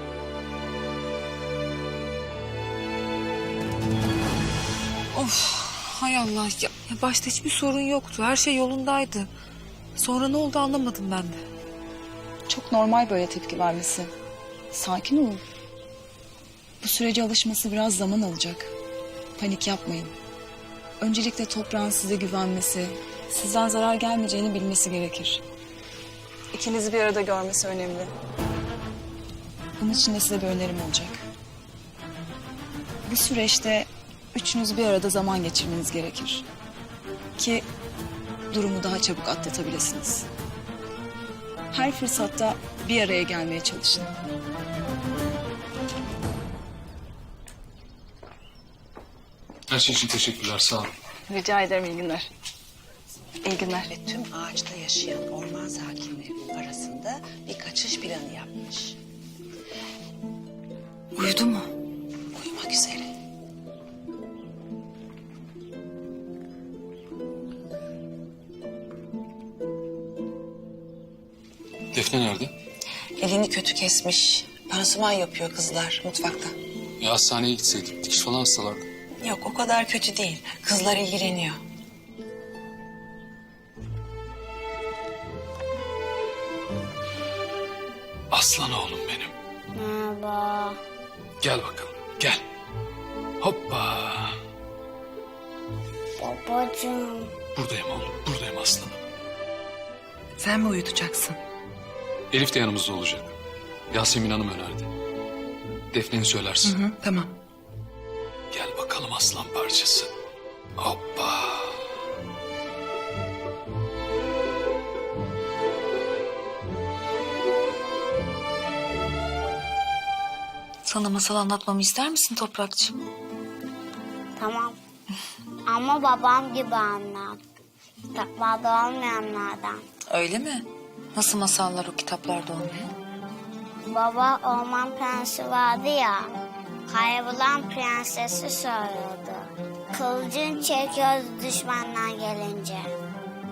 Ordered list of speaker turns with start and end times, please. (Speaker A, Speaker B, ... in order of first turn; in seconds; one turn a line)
Speaker A: 5.1-9.3
Speaker A: 10.0-11.4
Speaker B: 12.5-14.1
Speaker B: 14.7-15.4
Speaker B: 16.8-18.7
Speaker B: 19.4-20.1
Speaker B: 21.0-25.4
Speaker B: 26.5-28.1
Speaker B: 29.8-31.2
Speaker B: 33.1-36.5
Speaker B: 37.4-37.7
Speaker B: 38.5-40.3
Speaker B: 41.7-44.1
Speaker C: 49.7-50.9
Speaker B: 51.3-52.3
Speaker B: 53.5-53.8
Speaker D: 53.5-59.0
Speaker A: 61.1-61.7
Speaker D: 62.4-63.1
Speaker C: 71.9-72.5
Speaker D: 73.2-76.5
Speaker C: 77.0-78.9
Speaker D: 79.2-81.6
Speaker C: 88.3-89.3
Speaker E: 89.7-90.8
Speaker C: 91.4-92.4
Speaker C: 93.4-94.3
Speaker E: 96.2-97.3
Speaker C: 97.6-99.0
Speaker B: 100.4-101.4
Speaker C: 102.3-103.3
Speaker C: 103.9-104.9
Speaker C: 105.9-106.8
Speaker B: 106.7-107.3
Speaker C: 108.5-110.1
Speaker C: 110.8-111.8
Speaker A: 120.8-123.0
Speaker E: 124.4-124.8
Speaker E: 125.7-127.4
Speaker E: 128.1-129.9
Speaker A: 130.1-132.9
Speaker E: 133.9-136.3
Speaker E: 136.9-142.9